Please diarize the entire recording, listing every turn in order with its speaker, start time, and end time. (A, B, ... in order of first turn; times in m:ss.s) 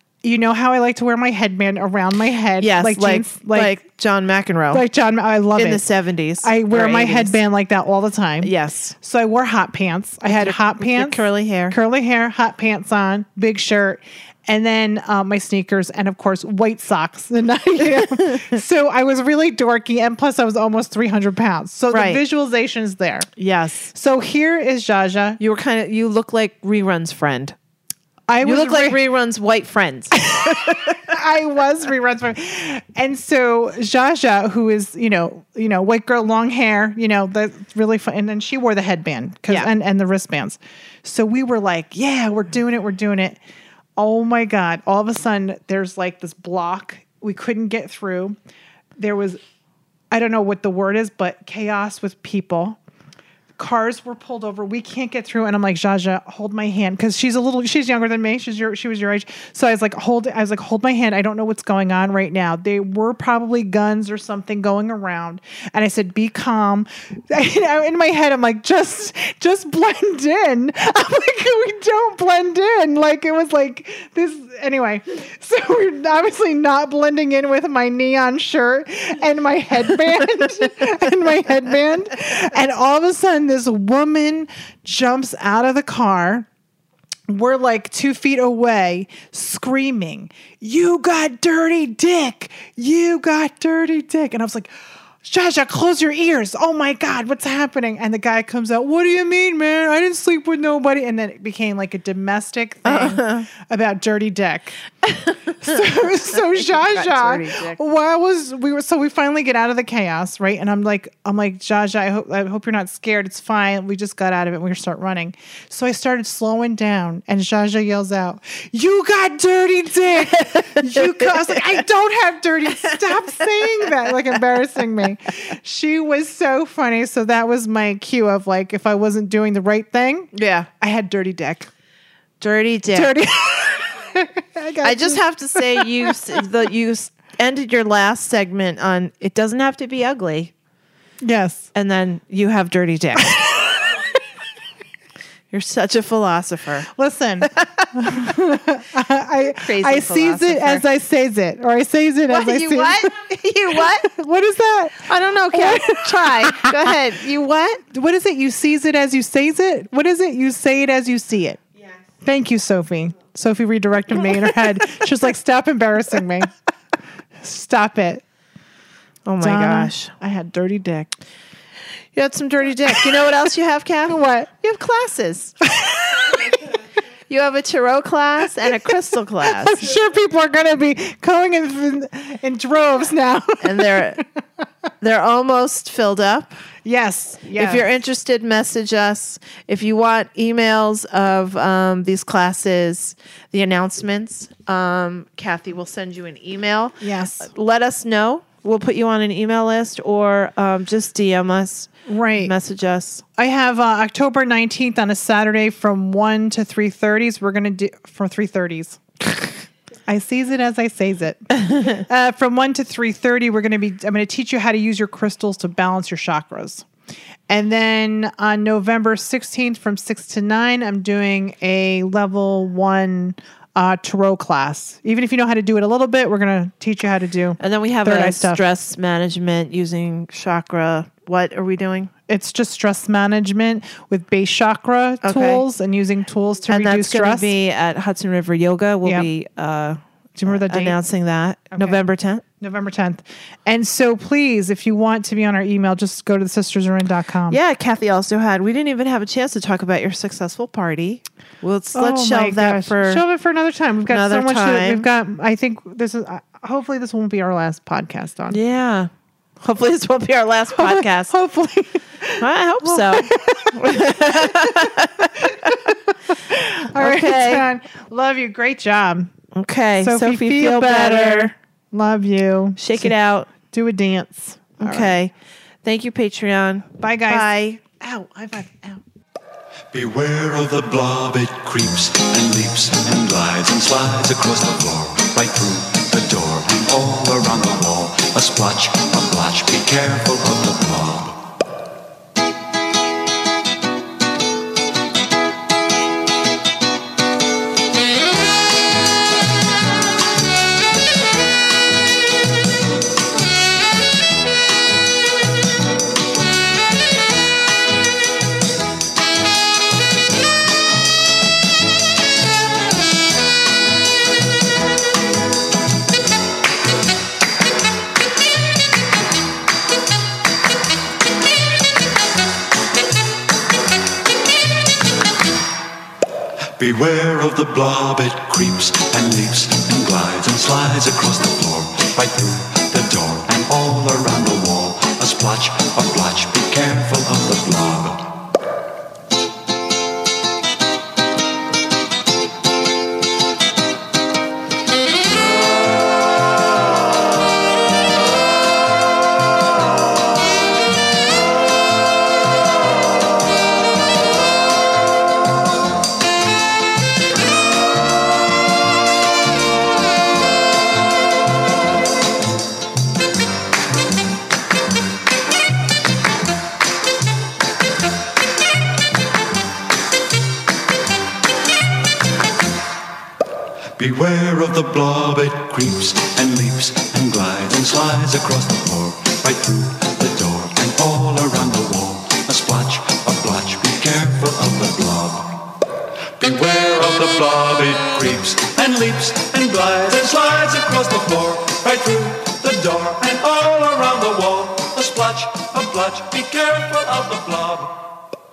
0:00.2-0:03.7 A
0:02.6-0:04.8 B
0:04.7-0:05.8 A
0:05.6-0:07.4 B
0:06.4-0:23.3 A
0:08.4-0:09.0 B
0:10.3-0:11.8 B
0:17.9-0:18.6 B
0:21.9-0:22.2 B
0:23.4-0:23.9 B
0:23.9-0:25.4 A
0:25.4-0:27.6 B
0:28.3-0:29.0 A
0:28.4-0:31.0 B
0:30.3-0:43.4 A
0:44.0-0:48.4 A
0:49.0-0:49.4 A
0:50.1-0:52.8 A
0:53.6-1:26.5 A
1:27.3-1:44.8 A
1:42.9-1:43.5 B
1:45.6-2:11.7 A
1:45.7-1:47.8 B
2:00.5-2:01.7 B
2:10.3-2:10.7 B
2:12.4-2:13.1 B
2:12.9-2:16.1 A
2:14.8-2:20.5 B
2:21.2-2:21.7 A
2:21.7-2:23.4 B
2:23.2-2:24.0 A
2:25.5-2:26.9 B
2:26.9-2:33.2 A
2:27.5-2:27.9 B
2:29.4-2:30.8 B
2:32.3-2:34.1 B
2:33.7-2:37.0 A
2:35.0-2:37.8 B
2:37.9-2:41.6 A
2:42.2-2:46.5 A
2:47.4-2:48.2 A
2:49.3-2:51.1 B
2:49.4-2:49.9 A
2:52.2-2:55.6 B
2:53.0-2:53.3 A
2:54.1-2:54.5 A
2:55.6-2:56.6 A
2:57.3-2:59.8 B
2:59.4-3:04.2 A
3:03.6-3:04.2 B
3:05.0-3:06.5 B
3:06.8-3:07.8 A
3:07.5-3:23.2 B
3:17.0-3:17.5 A
3:22.1-3:22.5 A
3:23.4-3:36.8 A
3:37.5-3:48.6 A
3:47.6-3:52.1 B
3:52.3-3:57.5 A
3:55.2-3:55.6 B
3:56.7-4:02.4 B
3:59.0-3:59.3 A
4:00.4-4:01.0 A
4:01.7-4:02.0 A
4:02.6-4:07.6 A
4:07.5-4:13.2 B
4:11.9-4:18.6 A
4:14.1-4:15.1 B
4:18.5-4:21.4 B
4:20.8-4:29.3 A
4:22.4-4:26.0 B
4:26.9-4:27.7 B
4:29.5-4:31.6 B
4:30.0-4:35.2 A
4:32.8-4:33.5 B
4:34.8-4:35.3 B
4:35.8-4:37.8 B
4:37.0-4:39.0 A
4:39.9-4:51.4 C
5:26.8-5:38.3 C
6:14.0-6:25.6 C
6:26.4-6:38.2 C